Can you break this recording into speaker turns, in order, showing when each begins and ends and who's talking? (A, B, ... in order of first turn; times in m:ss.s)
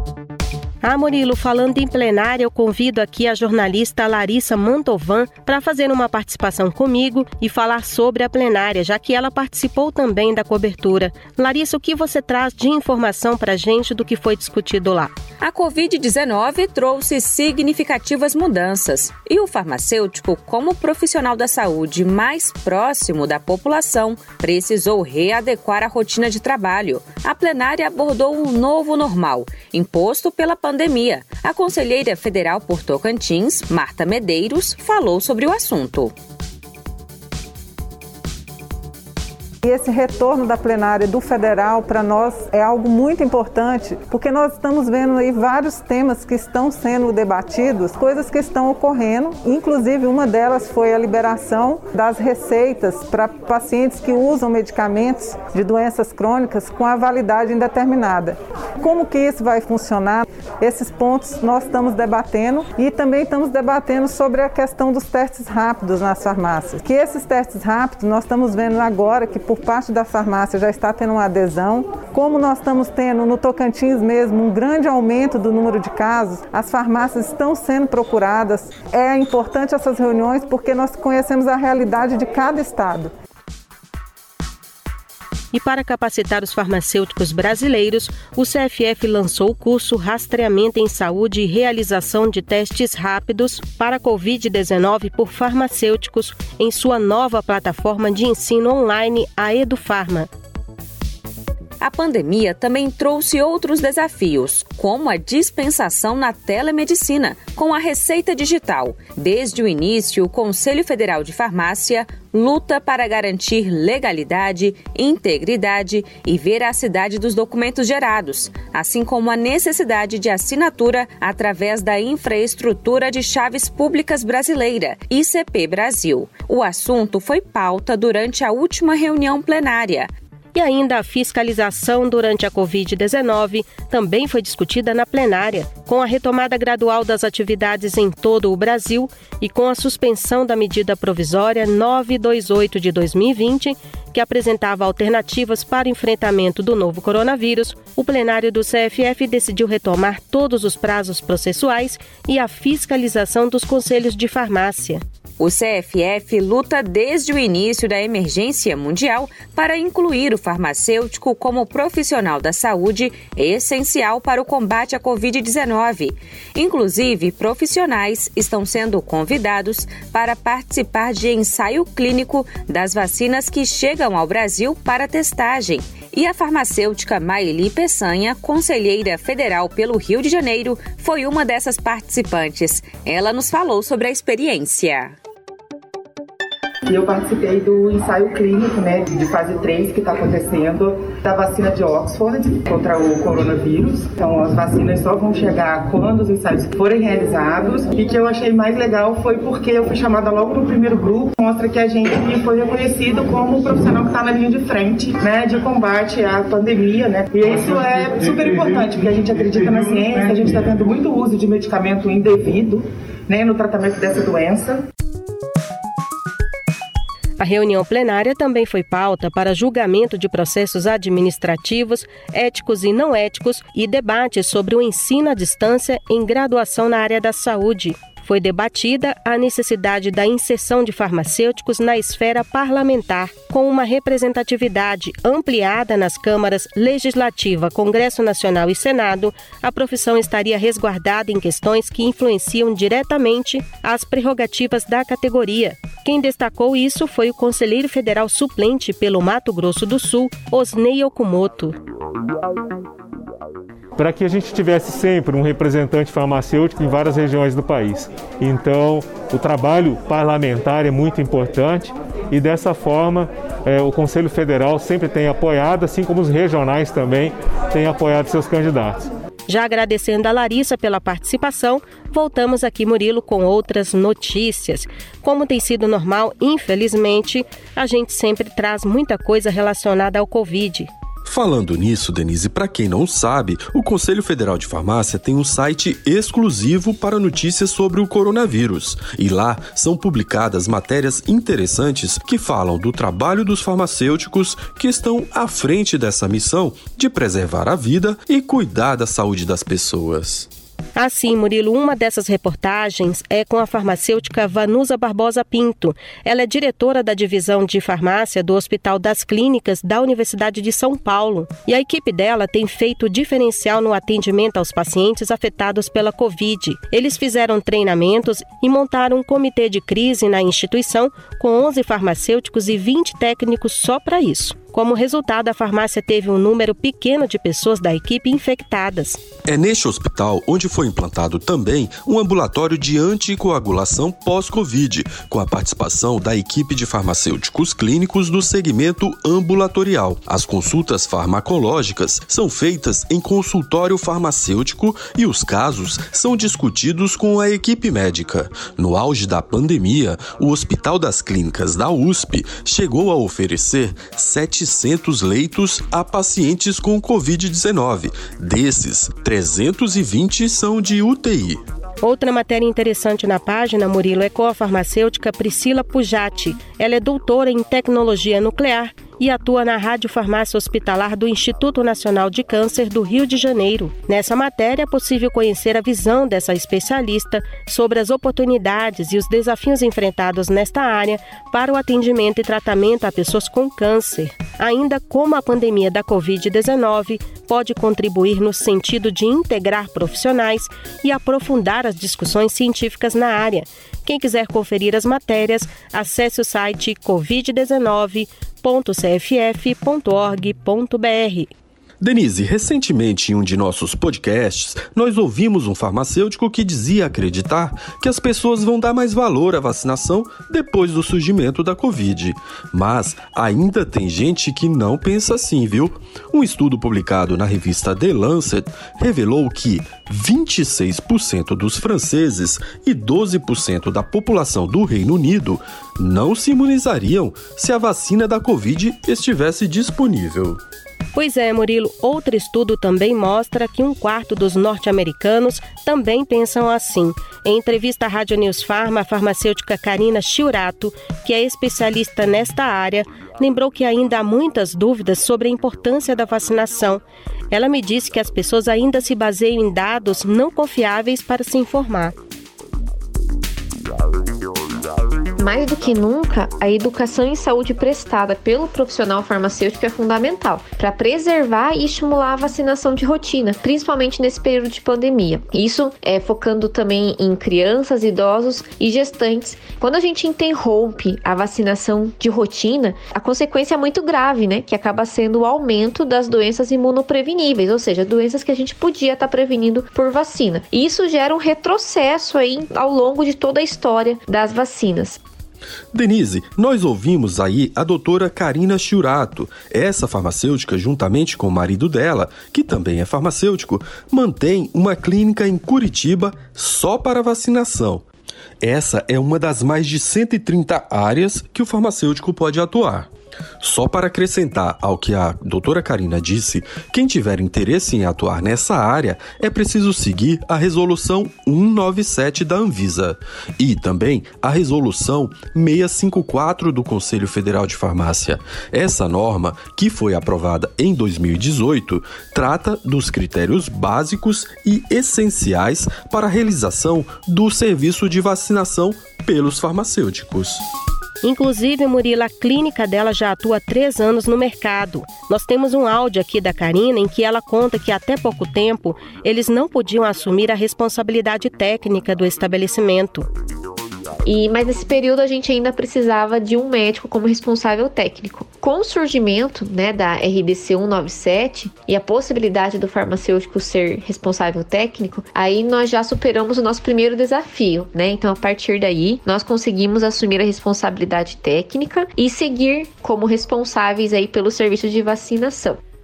0:00.8-0:15.1 A
0:15.4-0:36.1 B
0:39.6-1:23.1 C
1:25.5-1:40.3 A
1:41.8-2:10.1 B
2:10.6-2:35.0 A
2:35.4-3:05.2 B
3:06.9-3:34.8 D
3:37.4-4:11.8 A
4:14.0-4:29.1 E
4:29.5-4:40.9 A
4:41.3-5:00.5 F
5:01.0-5:29.2 A
5:29.5-6:01.6 F
6:02.0-6:41.5 A
6:42.0-7:10.6 F
7:11.2-7:32.2 A
7:35.4-8:05.2 G
8:05.9-8:18.0 F
8:18.6-8:23.1 F
8:23.6-8:50.6 F
8:51.2-9:03.3 A
9:04.3-9:25.8 G